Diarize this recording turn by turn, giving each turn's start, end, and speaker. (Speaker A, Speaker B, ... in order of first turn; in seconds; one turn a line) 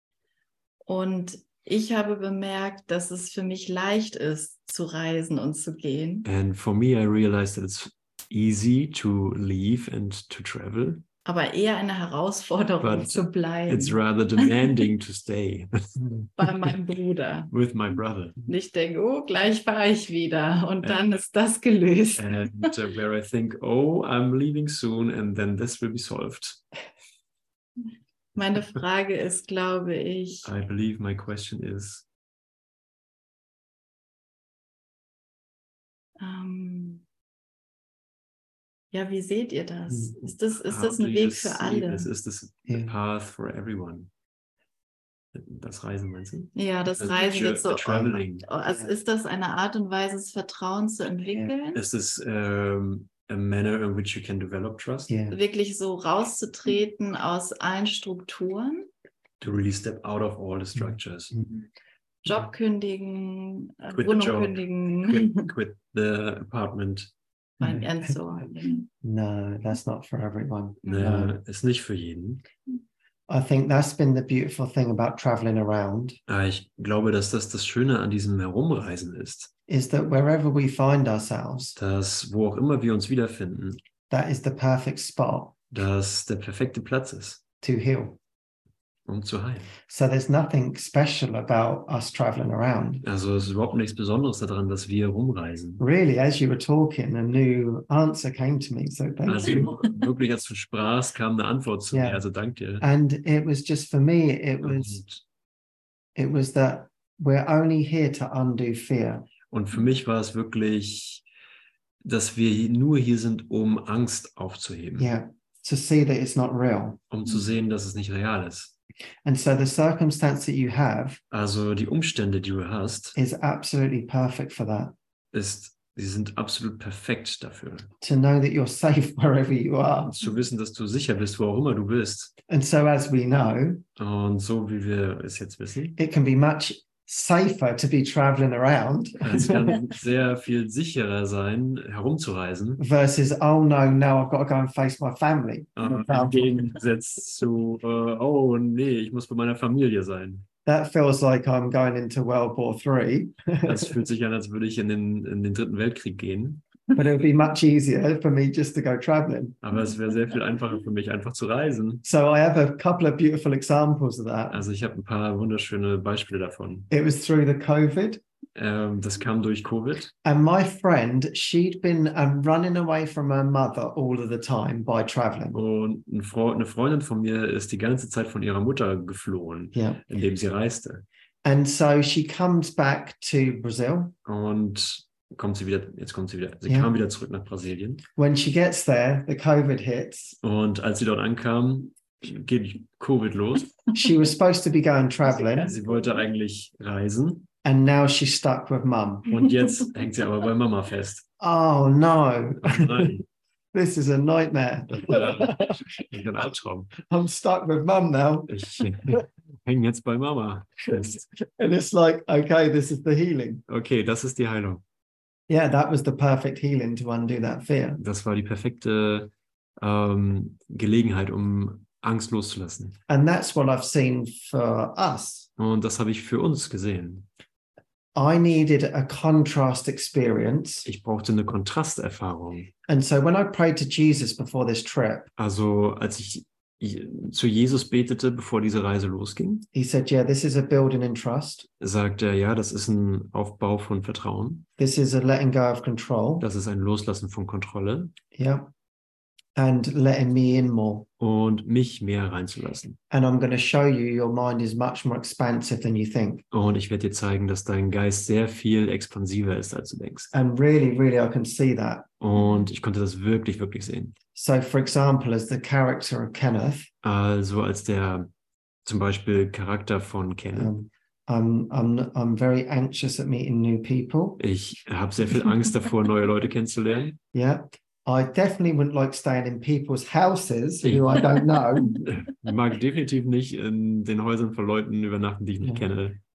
Speaker A: 0.9-6.3
Speaker B: 6.2-11.0
Speaker A: 11.2-14.8
Speaker B: 12.8-16.5
Speaker A: 16.4-17.5
Speaker B: 17.5-18.4
Speaker A: 18.4-22.7
Speaker B: 22.1-26.6
Speaker A: 28.3-30.5
Speaker B: 30.4-32.0
Speaker A: 36.2-37.0
Speaker A: 38.9-42.1
Speaker B: 40.2-44.1
Speaker C: 42.7-42.9
Speaker B: 45.3-48.5
Speaker A: 46.5-51.8
Speaker C: 48.6-48.9
Speaker B: 51.7-55.1
Speaker C: 55.1-55.4
Speaker A: 55.3-58.9
Speaker B: 59.4-61.3
Speaker C: 60.8-61.5
Speaker A: 62.2-65.5
Speaker B: 63.9-67.1
Speaker C: 67.6-68.2
Speaker A: 67.6-68.9
Speaker C: 69.0-71.3
Speaker A: 70.8-71.2
Speaker B: 70.9-72.4
Speaker C: 73.3-76.2
Speaker B: 76.3-79.5
Speaker C: 79.7-81.8
Speaker B: 81.8-83.8
Speaker C: 84.1-85.5
Speaker B: 85.7-87.4
Speaker C: 87.6-88.2
Speaker B: 89.1-89.7
Speaker C: 89.9-93.0
Speaker B: 93.0-95.8
Speaker C: 95.8-99.7
Speaker B: 99.2-102.8
Speaker C: 101.9-102.2
Speaker C: 102.8-105.0
Speaker B: 104.6-105.2
Speaker C: 106.2-109.3
Speaker B: 109.5-111.2
Speaker B: 112.0-115.1
Speaker C: 115.0-117.0
Speaker B: 117.1-118.7
Speaker C: 119.2-121.2
Speaker B: 121.3-123.2
Speaker C: 123.1-124.9
Speaker B: 125.3-127.9
Speaker C: 128.0-130.2
Speaker B: 130.1-132.3
Speaker C: 132.5-133.8
Speaker B: 134.0-136.0
Speaker C: 135.9-139.8
Speaker B: 139.2-142.8
Speaker C: 142.8-146.7
Speaker B: 145.8-150.4
Speaker C: 150.6-153.9
Speaker B: 153.6-156.6
Speaker C: 156.9-159.6
Speaker B: 159.6-162.0
Speaker C: 162.0-164.6
Speaker B: 164.5-166.9
Speaker C: 166.9-168.2
Speaker B: 168.6-170.1
Speaker C: 170.2-175.6
Speaker B: 175.5-181.0
Speaker C: 179.7-180.0
Speaker C: 181.4-184.1
Speaker B: 184.2-188.0
Speaker C: 186.7-186.9
Speaker C: 188.2-190.4
Speaker B: 190.4-193.8
Speaker C: 193.9-195.7
Speaker B: 195.6-197.5
Speaker C: 197.6-199.3
Speaker B: 199.3-201.2
Speaker C: 201.4-203.2
Speaker B: 202.6-203.2
Speaker C: 203.7-205.8
Speaker B: 204.9-206.9
Speaker C: 207.0-208.5
Speaker B: 208.5-211.2
Speaker C: 210.9-213.6
Speaker B: 213.7-214.8
Speaker C: 215.5-218.0
Speaker B: 218.0-223.0
Speaker C: 223.1-225.5
Speaker B: 225.6-227.2
Speaker C: 228.1-230.9
Speaker B: 230.8-232.7
Speaker C: 232.9-235.3
Speaker B: 235.4-239.7
Speaker C: 239.7-241.7
Speaker B: 241.8-244.7
Speaker C: 244.8-246.5
Speaker B: 246.4-248.1
Speaker C: 248.3-248.7
Speaker C: 249.6-251.1
Speaker B: 251.2-253.0
Speaker C: 253.1-256.4
Speaker B: 256.5-260.3
Speaker C: 260.3-262.1
Speaker B: 262.2-264.1
Speaker C: 264.3-266.9
Speaker B: 267.0-268.3
Speaker B: 268.8-270.7
Speaker C: 270.5-274.4
Speaker B: 274.4-277.2
Speaker C: 277.3-282.0
Speaker B: 280.8-286.2
Speaker C: 285.6-285.9